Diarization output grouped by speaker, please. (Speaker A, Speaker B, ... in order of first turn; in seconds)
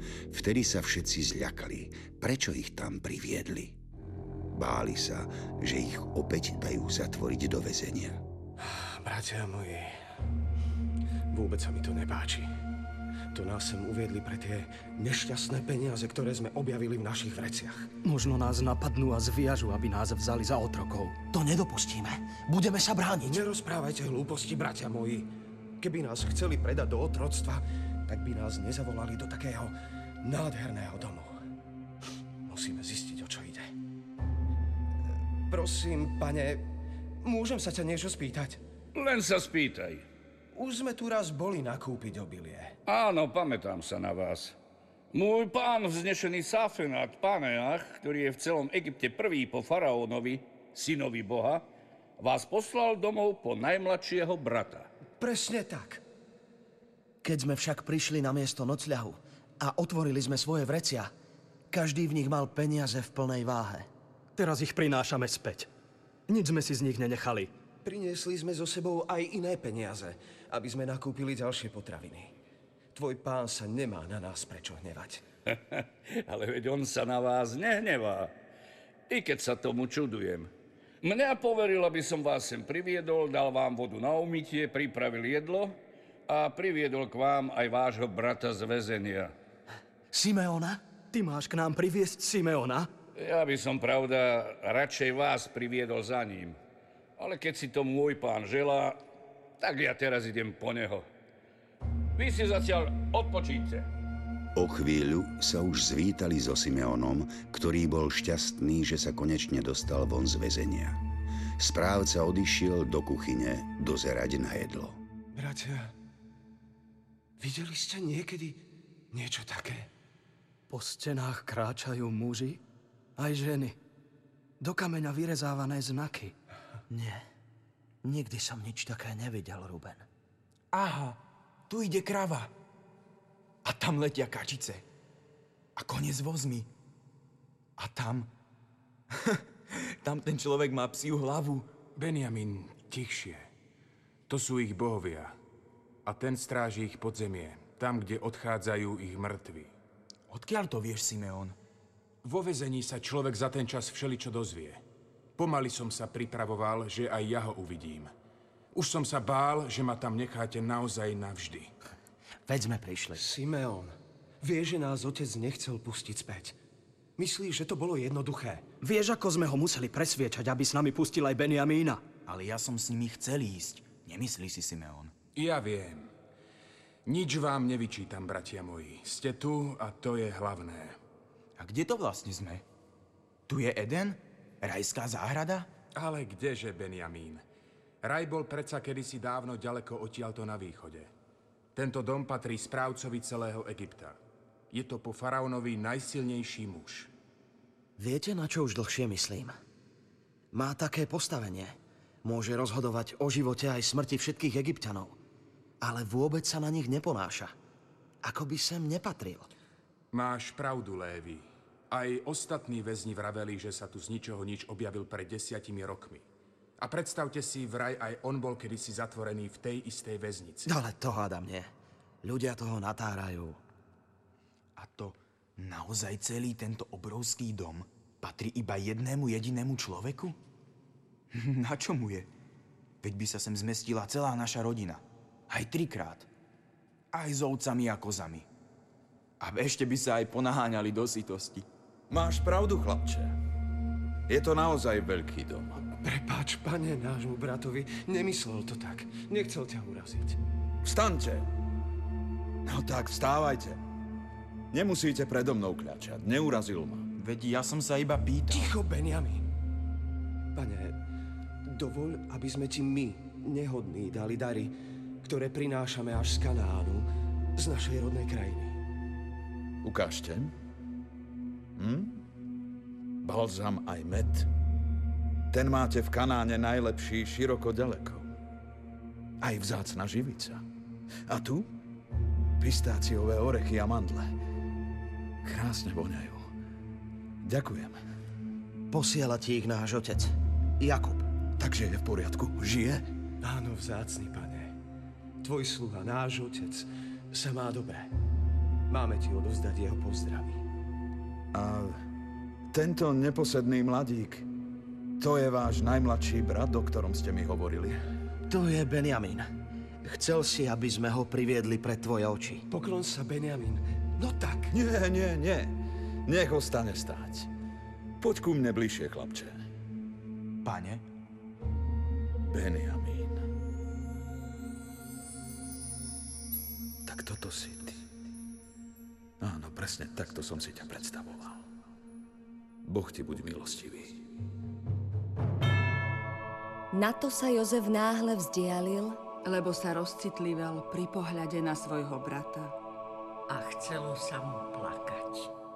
Speaker A: 0.3-3.8, 4.5-8.2, 104.5-111.0, 111.6-115.0
Speaker B: 8.6-10.0, 11.3-12.5, 13.3-17.9, 23.2-25.3, 25.8-31.4, 32.5-33.7, 35.5-36.7, 37.2-38.6, 40.5-42.8, 55.2-56.0, 67.8-72.3, 72.9-75.2, 115.3-115.9, 117.4-119.9, 163.2-166.6, 167.2-168.7, 246.0-250.4, 258.5-259.4, 260.6-261.0, 261.7-268.8, 293.4-294.8, 295.4-298.1, 298.9-300.6, 312.7-314.7
Speaker C: 18.0-21.2, 64.4-65.7, 66.3-67.5, 91.1-92.9, 120.7-122.6, 123.2-123.8, 124.6-126.3, 168.8-172.1
Speaker D: 21.3-23.4, 57.2-61.1, 61.7-63.9, 90.1-90.8, 126.9-127.2, 128.0-130.1, 162.5-163.2, 198.0-199.6, 200.5-205.2, 205.8-207.5, 208.2-209.5, 220.7-221.7, 222.2-223.6, 288.9-291.3, 308.5-309.5, 310.0-312.6
Speaker E: 39.0-40.1, 42.9-44.6, 45.1-51.7, 52.2-54.9, 75.5-78.3, 79.1-80.5, 81.0-85.8, 86.3-89.3, 93.2-96.6, 97.2-99.0, 99.6-101.1, 102.2-103.9
Speaker F: 130.7-132.5, 133.6-134.8, 135.8-136.7, 137.8-138.3, 140.0-141.7, 150.3-151.6, 172.2-175.1, 181.6-182.6, 183.5-185.7, 224.8-230.4, 231.3-232.3, 233.0-236.3, 237.1-238.5, 239.4-241.7, 257.2-258.7, 320.6-321.0
Speaker G: 142.0-143.5, 144.3-145.3, 146.1-149.7, 152.2-154.8, 155.4-158.1, 158.7-161.7, 175.3-176.1, 177.1-181.0, 186.0-187.4, 188.0-191.1, 191.8-194.2, 194.7-197.1, 210.1-216.2, 216.8-220.7
Speaker H: 242.1-243.3, 244.3-245.8, 250.8-251.5, 252.7-253.8, 254.7-257.1, 269.8-270.5, 271.8-272.2, 273.2-274.5, 275.5-278.3, 279.4-280.6, 281.3-281.7, 282.6-284.3, 285.4-286.4, 287.4-288.0, 291.6-293.1, 301.5-302.0, 302.7-304.5, 305.2-308.0, 314.7-315.7, 316.3-317.5, 318.2-319.6, 322.4-323.4, 327.1-328.0, 329.4-331.6, 332.9-334.2
Speaker I: 336.9-339.3
Speaker J: 339.4-342.8
Speaker K: 343.5-345.5